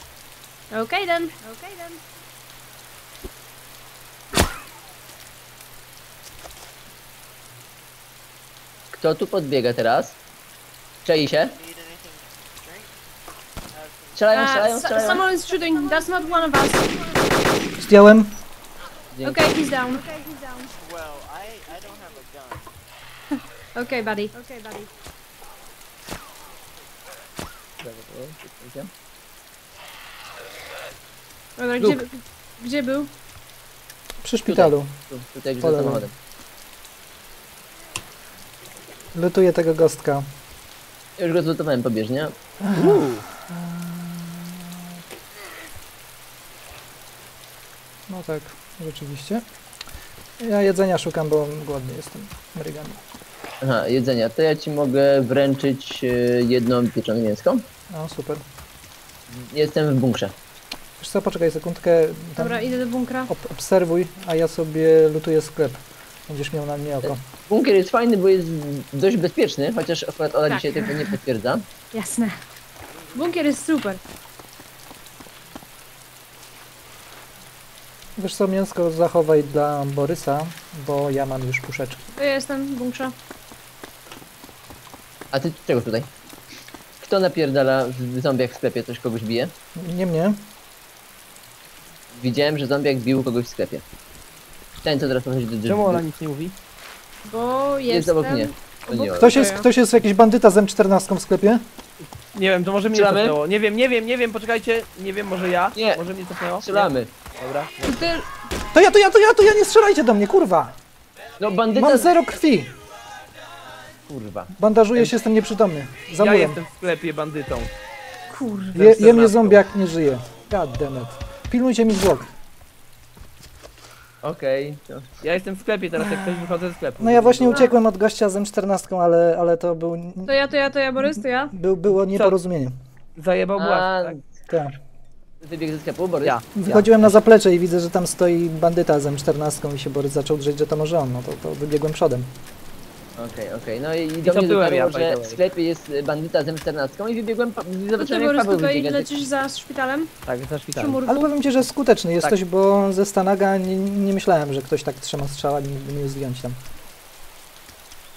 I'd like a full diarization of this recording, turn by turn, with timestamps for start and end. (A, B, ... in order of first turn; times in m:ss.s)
0:00.7-0:01.9 A
0:08.9-0:10.2 B
0:11.0-0:11.6 B
0:11.3-0:12.9 C
0:13.7-0:15.2 C
0:14.2-0:15.2 B
0:14.3-0:16.9 A
0:17.8-0:18.4 D
0:19.2-0:20.1 A
0:20.7-0:22.7 C
0:23.8-0:24.4 A
0:27.8-0:28.9 B
0:31.6-0:33.1 A
0:34.2-0:34.9 D
0:34.5-0:36.1 B
0:35.6-0:36.0 D
0:39.1-0:40.3 D
0:41.2-0:42.4 B
0:42.6-0:44.9 D
0:42.7-0:43.2 E
0:48.1-0:49.4 D
0:50.4-0:53.0 D
0:53.6-0:57.6 B
0:57.9-0:58.4 D
0:59.3-1:00.4 B
1:01.0-1:02.7 D
1:02.4-1:03.3 A
1:03.3-1:07.2 D
1:07.0-1:11.6 B
1:10.5-1:11.1 A
1:11.9-1:12.4 A
1:13.1-1:14.0 A
1:18.2-1:22.1 D
1:22.2-1:23.1 A
1:25.3-1:26.1 B
1:27.0-1:29.5 B
1:29.8-1:30.4 D
1:32.1-1:33.8 B
1:34.8-1:36.0 B
1:35.7-1:36.5 E
1:37.2-1:39.7 A
1:37.9-1:39.4 B
1:39.2-1:41.6 D
1:42.3-1:48.1 E
1:42.9-1:43.4 B
1:45.8-1:46.0 B
1:46.6-1:47.1 B
1:47.9-1:48.2 A
1:48.7-1:50.8 D
1:51.4-1:52.1 B
1:51.7-1:52.8 D
1:54.1-1:55.1 B
1:54.6-1:56.6 D
1:56.2-1:57.7 E
1:58.3-2:02.3 D
1:58.7-1:59.6 E
2:04.2-2:05.2 B
2:05.2-2:07.7 E
2:06.0-2:10.4 D
2:10.3-2:11.5 A
2:11.0-2:12.8 D
2:13.2-2:14.2 E
2:13.6-2:14.3 B
2:14.5-2:14.8 D
2:15.4-2:16.4 B
2:16.2-2:17.1 E
2:16.6-2:22.3 D
2:23.2-2:29.1 B
2:24.2-2:25.4 E
2:28.0-2:30.1 A
2:30.3-2:31.0 E
2:30.8-2:31.3 A
2:31.1-2:36.6 D